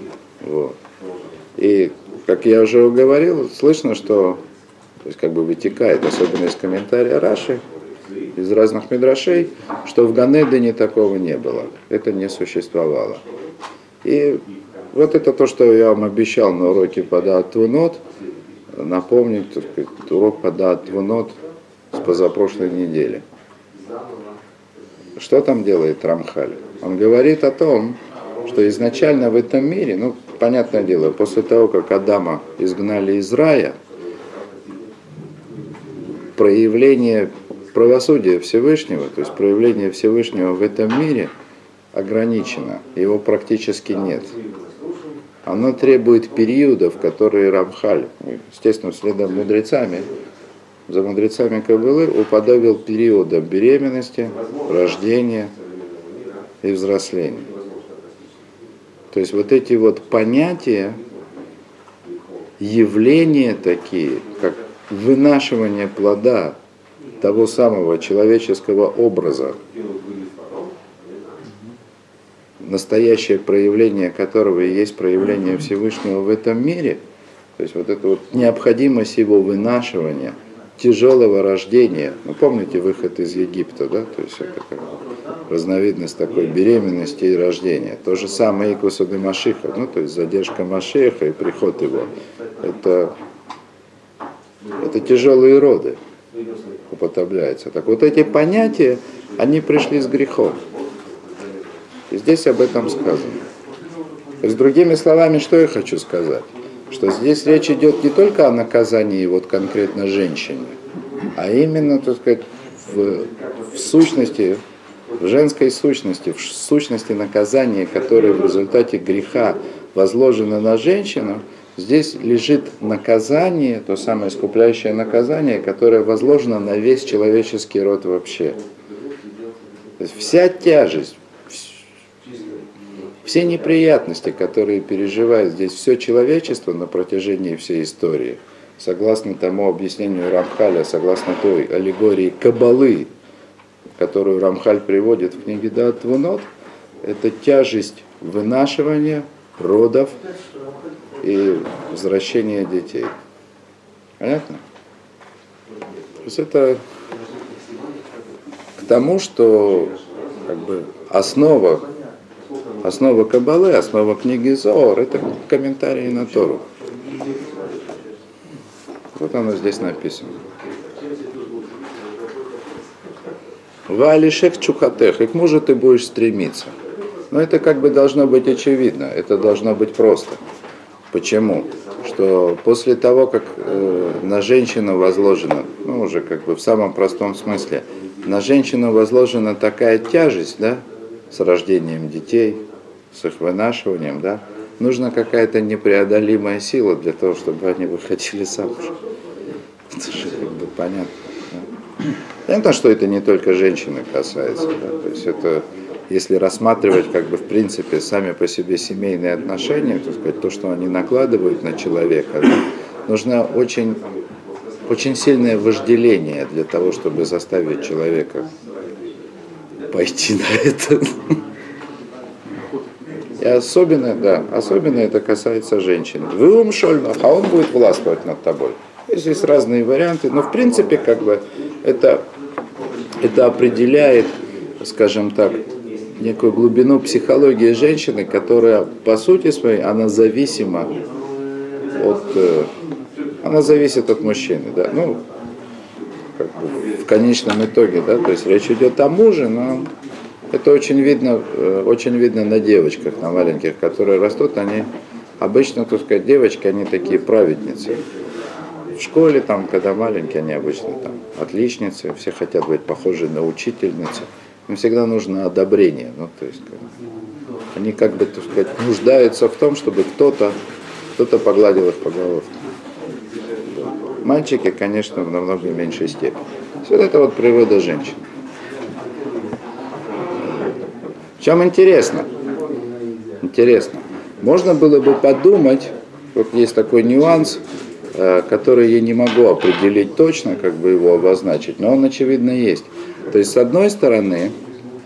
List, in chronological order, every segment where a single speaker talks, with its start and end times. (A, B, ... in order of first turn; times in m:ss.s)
0:00.4-0:00.8 A
0:01.6-0:04.4 A
0:05.0-0:07.6 A
0:08.4-0:13.2 A
0:14.0-0:18.0 A
0:18.7-0:21.3 A
0:21.9-0:23.2 A
0:25.2-0:33.8 A
0:36.4-0:41.3 A
0:41.9-0:44.3 A
0:45.4-0:50.1 A
0:50.9-0:55.5 A
0:56.6-0:57.5 A
0:59.1-1:01.0 A
1:02.6-1:06.6 A
1:07.2-1:09.6 A
1:12.6-1:17.0 A
1:17.6-1:24.9 A
1:25.5-1:33.1 A
1:34.8-1:36.0 A
1:36.9-1:40.6 A
1:42.1-1:43.4 A
1:44.4-1:50.8 A
1:51.4-1:54.6 A
1:55.2-2:08.6 A
2:10.0-2:11.8 A
2:13.2-2:23.1 A
2:24.0-2:26.5 A
2:27.0-2:30.2 A
2:31.2-2:33.1 A
2:34.2-2:34.6 A
2:36.2-2:36.8 A
2:38.8-2:40.0 A
2:40.5-2:41.8 A
2:42.8-2:46.6 A
2:49.1-2:50.3 A
2:53.9-2:56.7 A
2:57.3-3:00.4 A
3:01.1-3:18.9 A
3:19.9-3:21.7 A
3:22.5-3:34.0 A
3:34.9-3:38.5 A
3:39.9-3:41.4 A
3:43.4-3:52.2 A
3:53.2-3:55.6 A
3:56.2-4:00.9 A
4:02.0-4:02.7 A
4:03.4-4:05.2 A
4:06.4-4:09.9 A
4:10.5-4:18.0 A
4:19.0-4:26.8 A
4:27.7-4:30.6 A
4:31.2-4:32.6 A
4:34.2-4:38.2 A
4:41.4-4:42.3 A
4:43.4-4:47.6 A
4:48.1-4:54.5 A